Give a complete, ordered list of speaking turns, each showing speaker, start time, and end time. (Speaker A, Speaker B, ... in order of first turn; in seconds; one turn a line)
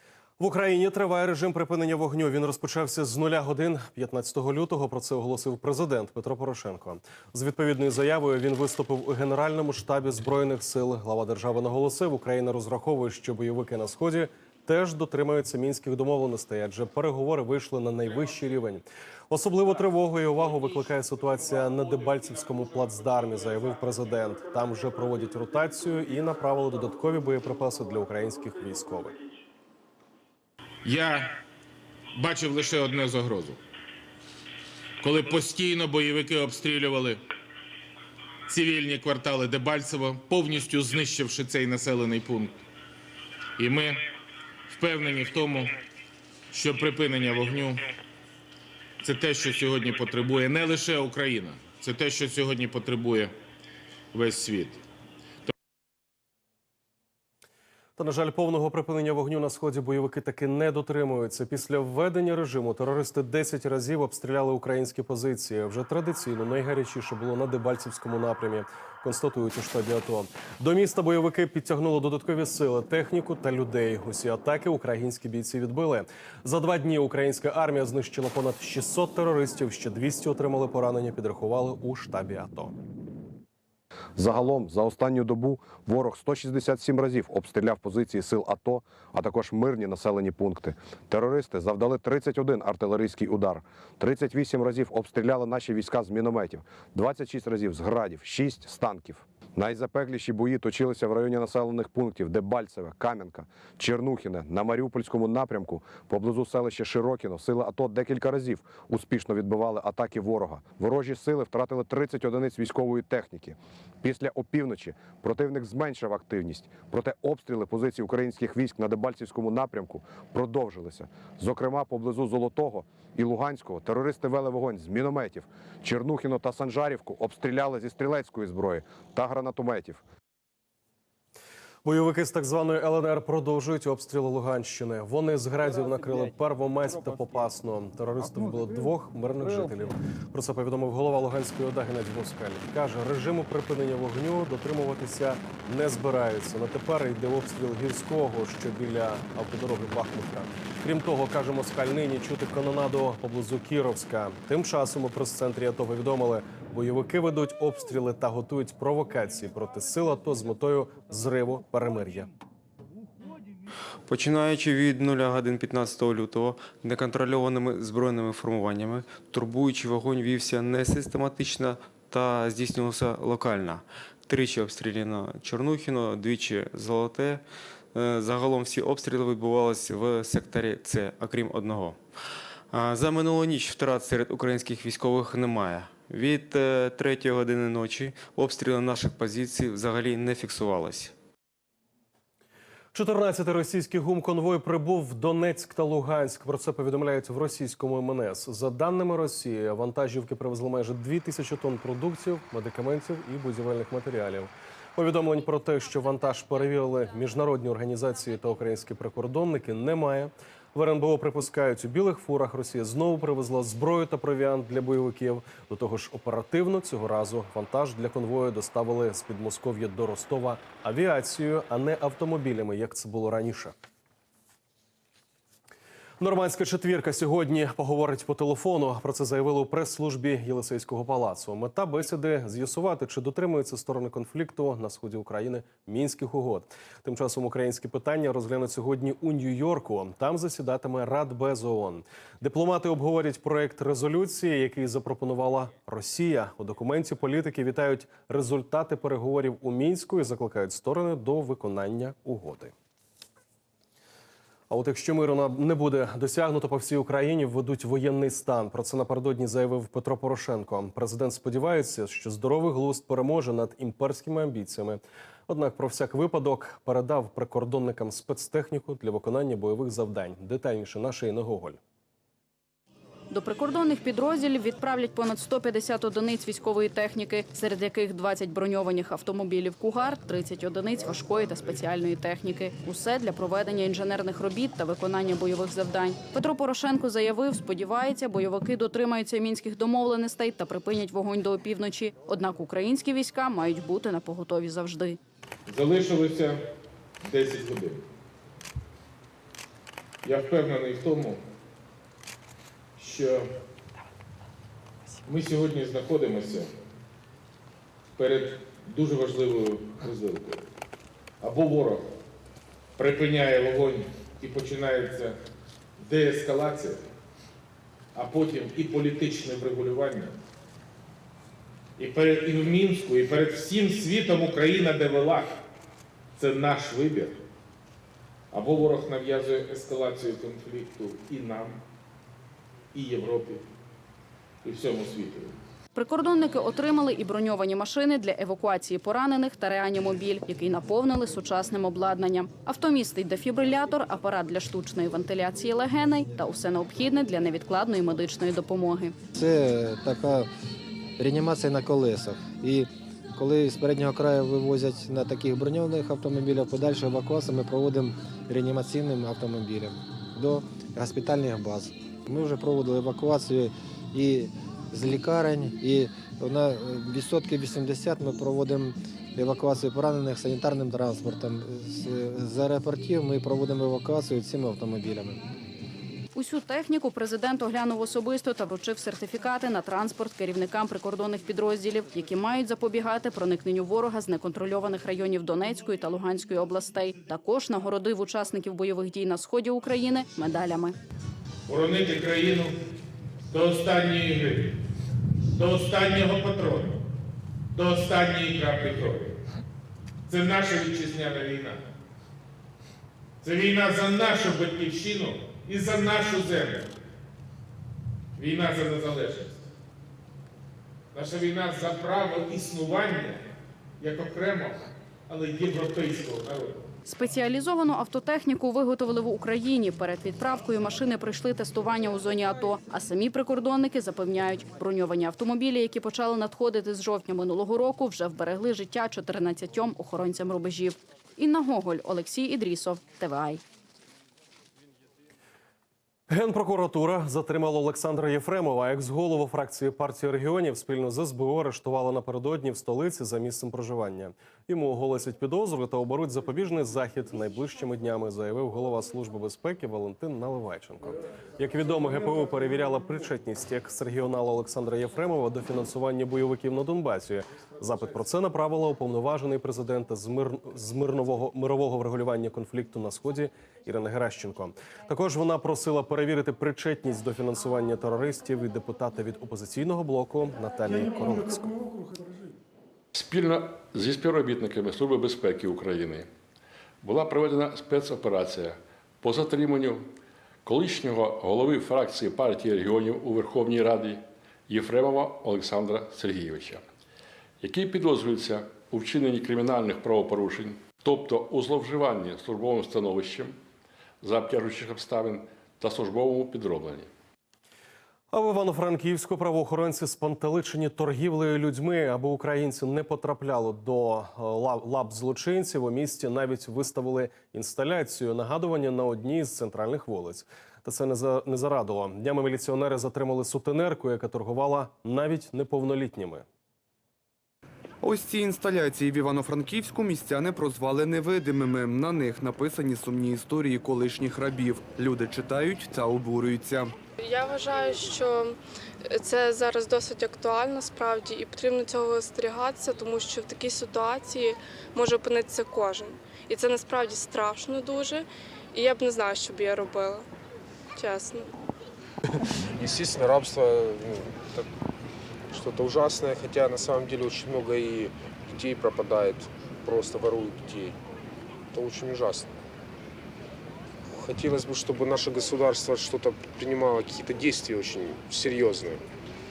Speaker A: 0.4-29.1
Speaker B: 30.8-31.3
Speaker B: 32.1-33.6
Speaker B: 35.0-37.2
Speaker B: 38.5-42.6
Speaker B: 43.6-44.0
Speaker B: 44.7-45.7
Speaker B: 46.5-47.8
Speaker B: 49.0-53.3
Speaker B: 54.1-54.8
Speaker A: 58.0-82.7
Speaker C: 84.2-130.0
Speaker A: 131.8-162.3
Speaker D: 164.1-182.2
Speaker D: 182.7-191.1
Speaker A: 192.9-223.7
Speaker A: 226.2-252.7
Speaker A: 254.7-271.8
Speaker E: 273.3-295.2
Speaker B: 295.7-296.6
Speaker B: 297.2-298.0
Speaker B: 300.2-301.4
Speaker B: 303.0-303.4
Speaker B: 305.3-306.7
Speaker B: 308.2-310.6
Speaker B: 311.4-312.1
Speaker B: 313.0-315.4
Speaker B: 316.0-317.1
Speaker B: 318.1-320.4
Speaker B: 322.0-325.5
Speaker B: 326.4-327.4
Speaker B: 328.5-331.8
Speaker B: 332.9-333.6
Speaker B: 334.6-335.6
Speaker E: 335.9-349.1
Speaker F: 349.4-350.5
Speaker F: 351.2-375.4
Speaker E: 376.3-390.9
Speaker B: 391.7-392.7
Speaker B: 393.5-394.7
Speaker B: 395.5-396.9
Speaker B: 397.7-399.4
Speaker B: 400.3-401.8
Speaker B: 403.4-406.9
Speaker B: 408.4-409.6
Speaker B: 411.1-413.4
Speaker B: 414.0-416.9
Speaker E: 417.1-433.6
Speaker A: 436.3-471.8
Speaker G: 473.1-476.3
Speaker G: 477.0-480.1
Speaker G: 480.6-486.8
Speaker G: 487.6-493.6
Speaker G: 494.2-497.1
Speaker A: 498.3-516.4
Speaker H: 518.0-526.9
Speaker I: 527.2-540.3
Speaker I: 541.0-541.5
Speaker J: 542.7-544.7
Speaker J: 545.5-551.0
Speaker J: 551.7-552.5
Speaker J: 554.0-559.0